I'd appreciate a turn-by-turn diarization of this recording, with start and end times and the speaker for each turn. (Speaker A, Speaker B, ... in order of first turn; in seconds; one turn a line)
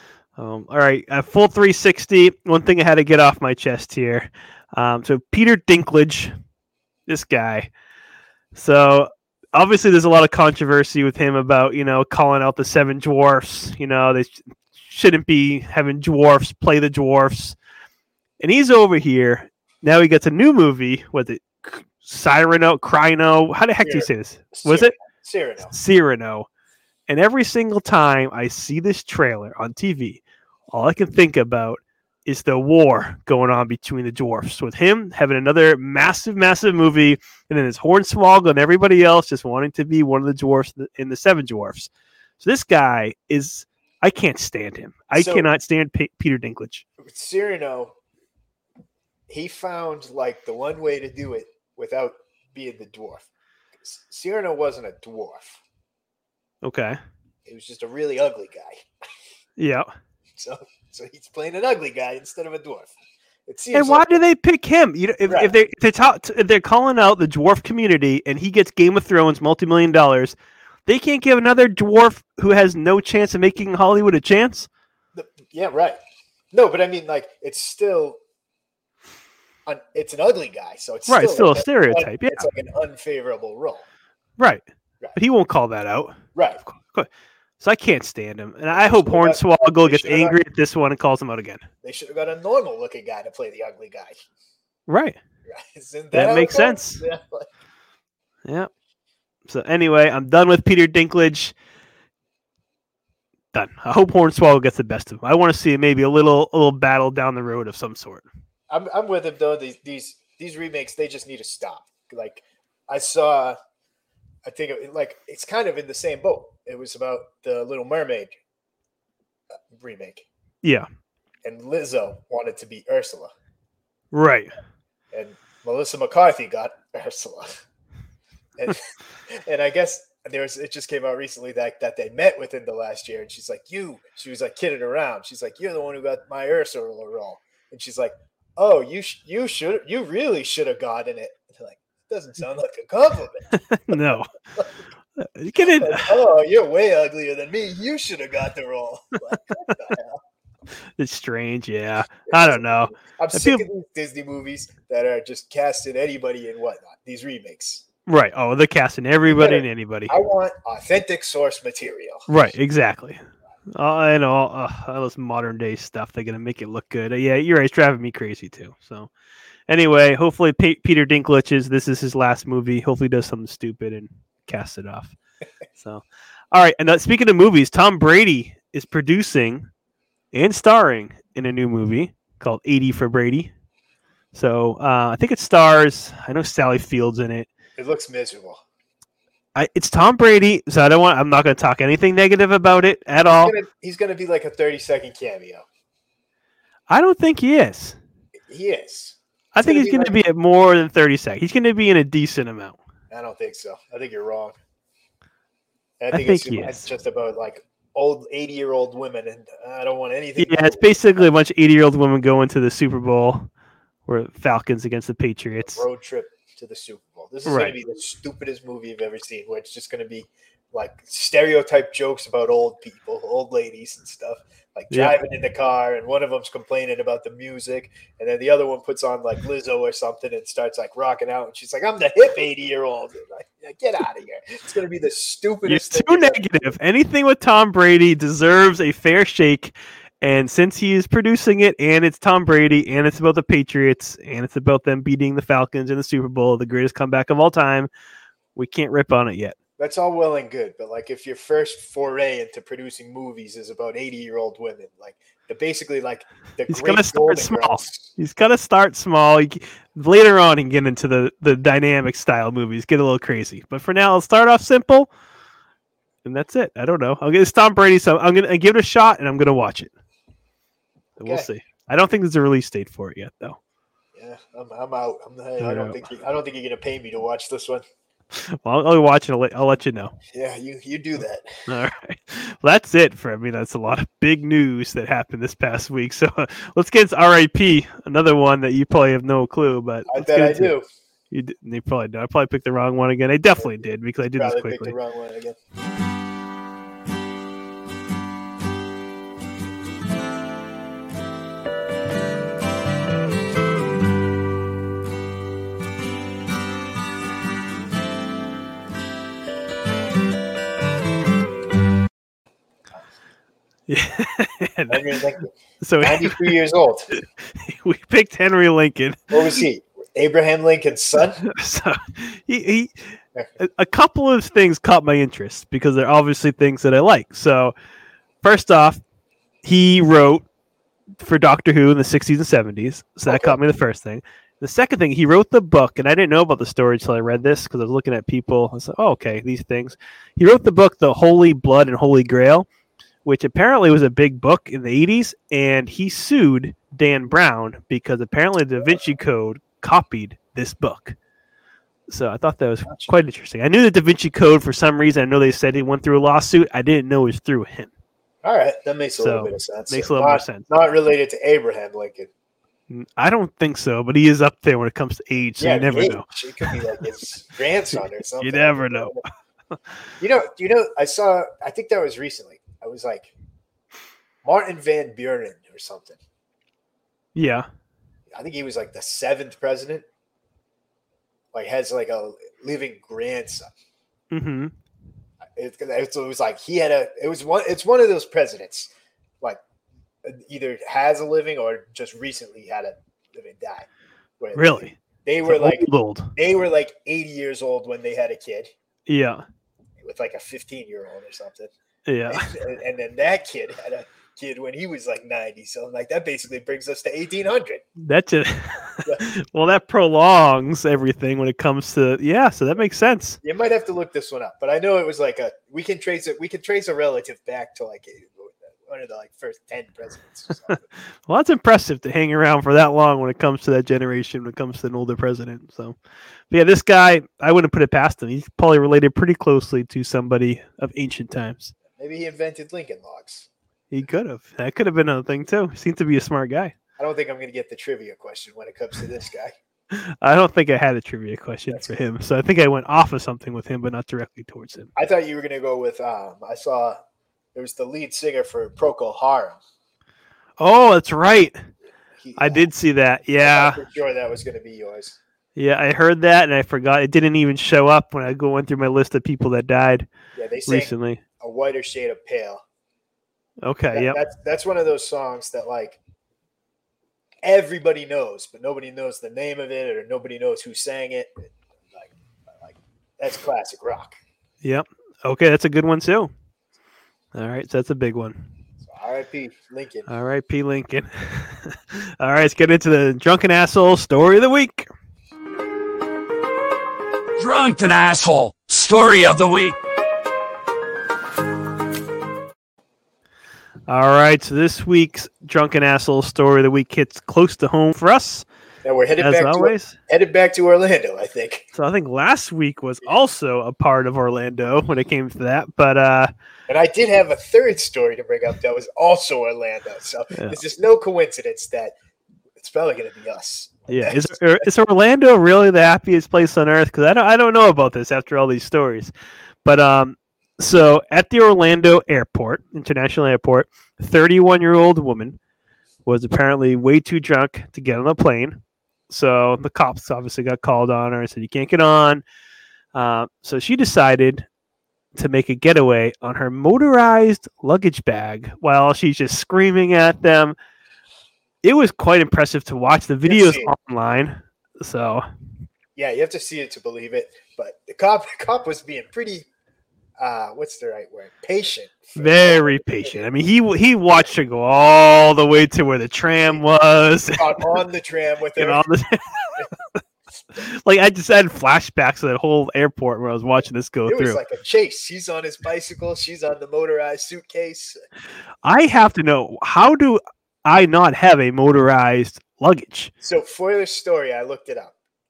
Speaker A: 0.4-6.3
Speaker A: 7.1-7.7
Speaker A: 8.5-17.6
Speaker A: 18.4-24.9
Speaker B: 23.8-25.7
Speaker A: 25.7-26.5
Speaker A: 27.1-46.9
Speaker B: 45.1-45.5
Speaker B: 47.0-47.9
Speaker B: 49.3-53.3
Speaker B: 53.8-55.6
Speaker A: 56.6-57.0
Speaker B: 57.5-58.9
Speaker A: 59.6-59.9
Speaker B: 60.4-62.9
Speaker B: 63.5-64.2
Speaker A: 63.7-74.7
Speaker B: 65.2-65.5
Speaker B: 75.1-76.0
Speaker B: 76.5-78.2
Speaker B: 79.7-83.8
Speaker A: 81.1-82.5
Speaker A: 84.4-87.1
Speaker B: 86.3-86.6
Speaker A: 87.6-91.7
Speaker B: 88.7-90.4
Speaker B: 91.8-94.2
Speaker A: 94.9-95.2
Speaker B: 95.5-97.5
Speaker A: 96.1-97.0
Speaker A: 99.5-101.5
Speaker A: 103.5-108.3
Speaker B: 108.7-113.6
Speaker B: 114.4-118.3
Speaker B: 119.7-120.2
Speaker B: 121.4-123.3
Speaker A: 124.1-124.6
Speaker B: 125.1-127.6
Speaker B: 128.6-144.7
Speaker A: 143.5-144.3
Speaker A: 145.2-146.2
Speaker B: 145.6-150.2
Speaker A: 151.0-153.7
Speaker B: 152.3-157.8
Speaker A: 158.1-160.2
Speaker B: 159.3-162.3
Speaker A: 162.3-169.1
Speaker A: 169.7-175.2
Speaker A: 175.8-179.7
Speaker A: 180.3-183.5
Speaker A: 184.3-187.5
Speaker B: 187.8-188.6
Speaker A: 189.6-193.6
Speaker B: 193.3-195.7
Speaker A: 196.9-198.0
Speaker B: 198.5-200.2
Speaker A: 199.5-202.8
Speaker B: 203.1-204.6
Speaker B: 206.0-211.3
Speaker A: 206.1-206.8
Speaker A: 210.4-213.5
Speaker A: 214.1-215.8
Speaker B: 215.6-236.7
Speaker A: 217.4-217.8
Speaker A: 224.9-225.2
Speaker A: 235.7-247.9
Speaker A: 248.6-249.6
Speaker B: 249.8-258.1
Speaker A: 256.7-265.1
Speaker A: 266.2-269.9
Speaker A: 271.2-273.6
Speaker B: 274.1-277.8
Speaker A: 275.6-276.0
Speaker A: 278.3-280.1
Speaker B: 280.3-281.5
Speaker A: 281.7-290.8
Speaker B: 290.1-290.9
Speaker A: 291.3-294.9
Speaker B: 294.3-295.6
Speaker A: 313.9-315.1
Speaker B: 314.9-317.1
Speaker A: 315.8-316.6
Speaker A: 317.1-319.6
Speaker B: 319.3-321.4
Speaker A: 321.4-327.7
Speaker A: 328.4-329.0
Speaker A: 329.6-330.4
Speaker A: 331.2-342.7
Speaker B: 333.3-333.6
Speaker A: 343.2-351.2
Speaker A: 352.1-357.9
Speaker B: 358.4-362.3
Speaker A: 359.2-360.7
Speaker A: 362.9-366.8
Speaker B: 365.6-369.2
Speaker A: 368.4-369.2
Speaker B: 370.2-373.3
Speaker B: 374.4-376.2
Speaker A: 377.4-377.7
Speaker B: 378.3-380.1
Speaker B: 381.5-383.7
Speaker A: 384.3-384.7
Speaker B: 385.6-389.6
Speaker B: 390.2-393.9
Speaker B: 394.4-398.7
Speaker A: 394.6-396.3
Speaker A: 399.1-399.4
Speaker B: 400.0-401.7
Speaker A: 402.1-402.5
Speaker B: 402.3-407.8
Speaker A: 408.0-413.4
Speaker B: 413.4-420.9
Speaker A: 421.3-426.0
Speaker A: 426.5-431.7
Speaker B: 431.9-433.5
Speaker A: 433.9-436.7
Speaker B: 437.0-439.5
Speaker A: 439.9-444.9
Speaker B: 445.0-447.0
Speaker B: 447.5-449.6
Speaker A: 450.6-451.6
Speaker B: 452.2-452.7
Speaker A: 452.4-453.8
Speaker B: 453.4-455.2
Speaker A: 455.6-460.1
Speaker B: 460.4-462.6
Speaker A: 460.7-461.2
Speaker A: 463.6-464.2
Speaker B: 463.9-466.0
Speaker B: 467.4-474.2
Speaker A: 474.6-476.3
Speaker A: 477.3-478.5
Speaker B: 478.8-480.1
Speaker A: 480.1-484.9
Speaker C: 487.4-489.8
Speaker A: 493.9-498.5
Speaker B: 498.8-501.7
Speaker A: 499.2-500.0
Speaker A: 501.7-506.3
Speaker B: 506.7-511.9
Speaker A: 510.3-510.6
Speaker B: 512.6-514.7
Speaker A: 513.9-519.1
Speaker A: 519.6-525.4
Speaker A: 526.1-532.2
Speaker A: 532.9-534.5
Speaker A: 535.1-540.6
Speaker A: 541.6-545.2
Speaker B: 543.3-543.7
Speaker B: 546.0-549.5
Speaker B: 550.2-553.3
Speaker A: 552.2-557.7
Speaker B: 557.3-558.8
Speaker A: 558.6-560.0
Speaker A: 560.6-564.4
Speaker B: 564.1-568.0
Speaker A: 568.6-573.1
Speaker B: 573.2-575.0